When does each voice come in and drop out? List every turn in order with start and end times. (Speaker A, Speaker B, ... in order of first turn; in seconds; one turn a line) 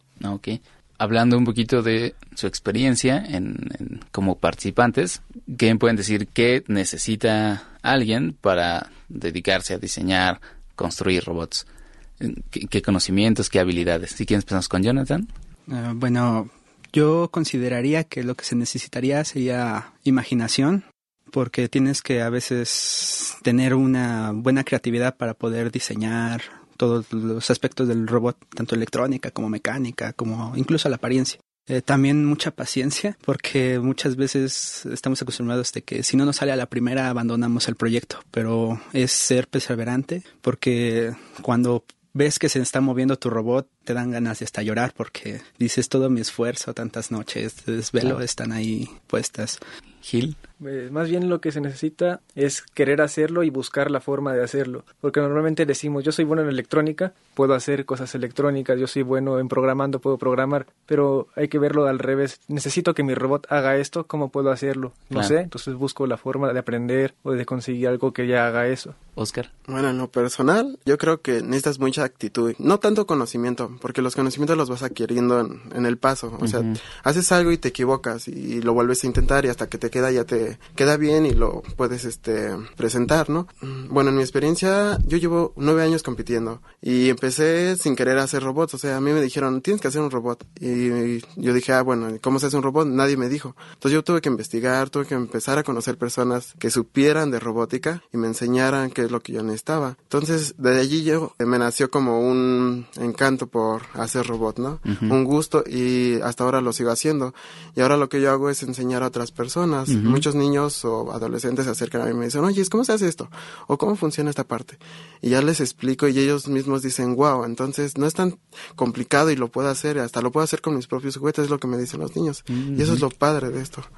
Speaker A: 0.2-11.7
Speaker A: 12.2-15.3
Speaker B: 15.7-49.6
Speaker A: 50.0-50.4
Speaker C: 50.6-69.0
Speaker A: 69.2-69.5
Speaker D: 69.7-123.9
Speaker A: 76.4-76.8
Speaker A: 104.8-105.2
Speaker A: 109.9-110.2
Speaker A: 122.5-123.0